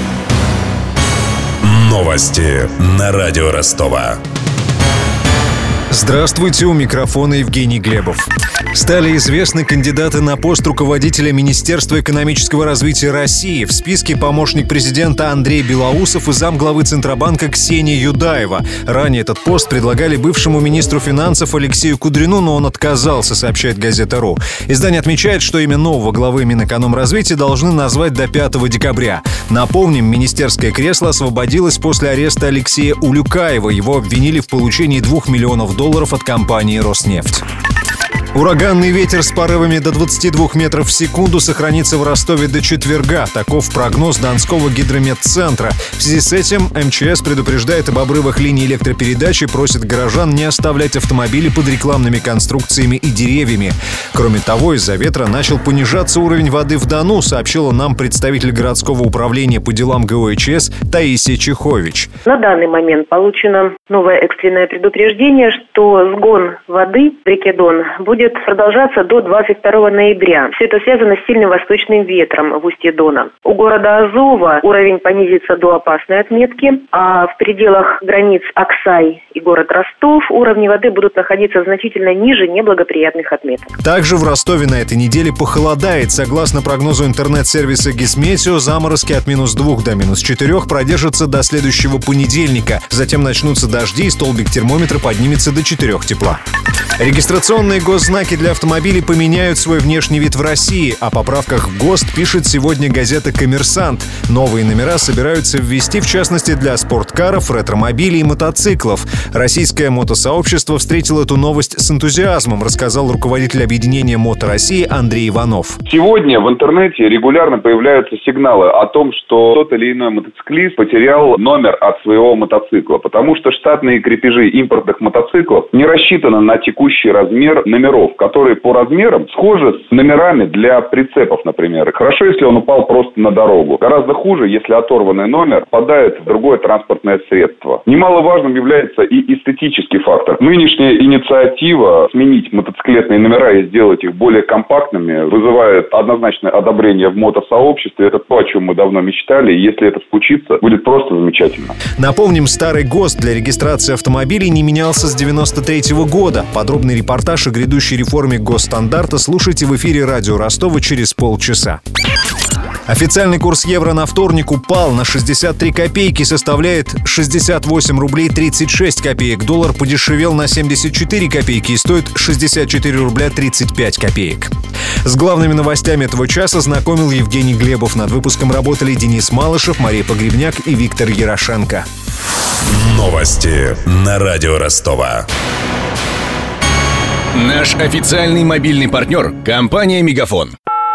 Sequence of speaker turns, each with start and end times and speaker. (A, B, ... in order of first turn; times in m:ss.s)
0:01.9-0:04.1 A
0:05.9-0:37.4 B
0:38.3-1:02.1 B
1:02.3-1:23.8 C
1:23.8-1:36.4 B
1:37.0-1:55.8 B
1:55.9-2:31.8 D
2:32.0-2:41.8 B
2:42.9-2:54.5 B
2:55.0-3:01.8 B
3:02.8-3:05.2 A
3:07.3-3:10.6 E